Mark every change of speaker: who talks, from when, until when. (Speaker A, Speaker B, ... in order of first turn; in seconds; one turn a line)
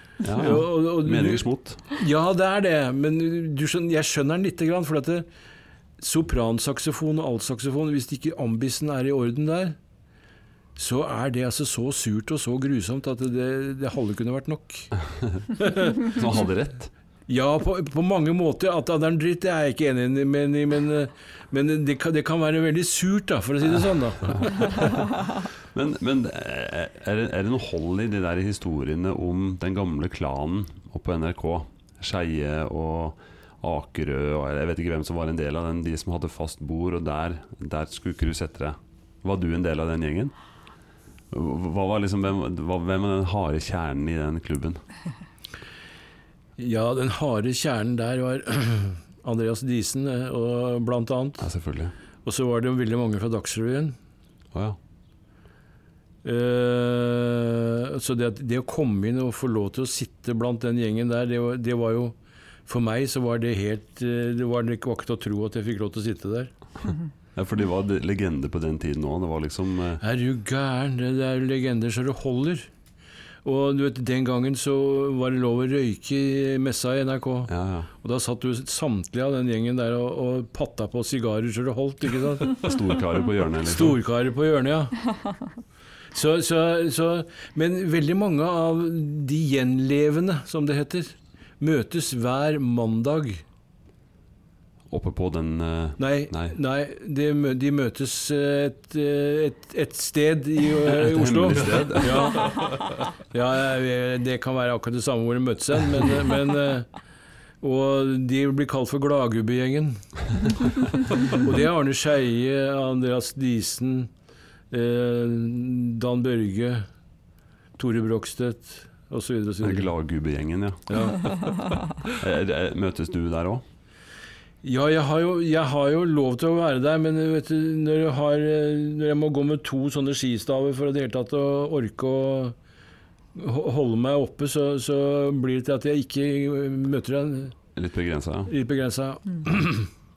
Speaker A: 0.2-1.8
Speaker B: 0.3-5.3
Speaker B: 6.0-9.8
Speaker B: 10.8-14.9
Speaker B: 15.6-16.1
Speaker A: 16.0-16.9
Speaker B: 17.3-24.8
Speaker A: 25.7-40.3
Speaker A: 41.3-44.8
Speaker B: 46.6-51.5
Speaker A: 51.4-51.9
Speaker B: 52.2-54.0
Speaker B: 56.2-62.1
Speaker B: 62.7-66.5
Speaker A: 67.4-70.0
Speaker B: 70.0-72.7
Speaker B: 73.4-82.7
Speaker A: 77.5-77.9
Speaker A: 82.6-84.0
Speaker B: 83.6-85.1
Speaker B: 86.1-93.4
Speaker A: 94.9-96.5
Speaker B: 96.0-106.9
Speaker A: 100.9-102.5
Speaker B: 107.6-114.1
Speaker B: 114.7-116.9
Speaker B: 117.8-119.9
Speaker A: 119.6-121.1
Speaker B: 120.9-121.3
Speaker A: 122.0-123.6
Speaker B: 124.6-132.6
Speaker B: 133.3-137.6
Speaker A: 137.8-138.5
Speaker B: 138.5-139.9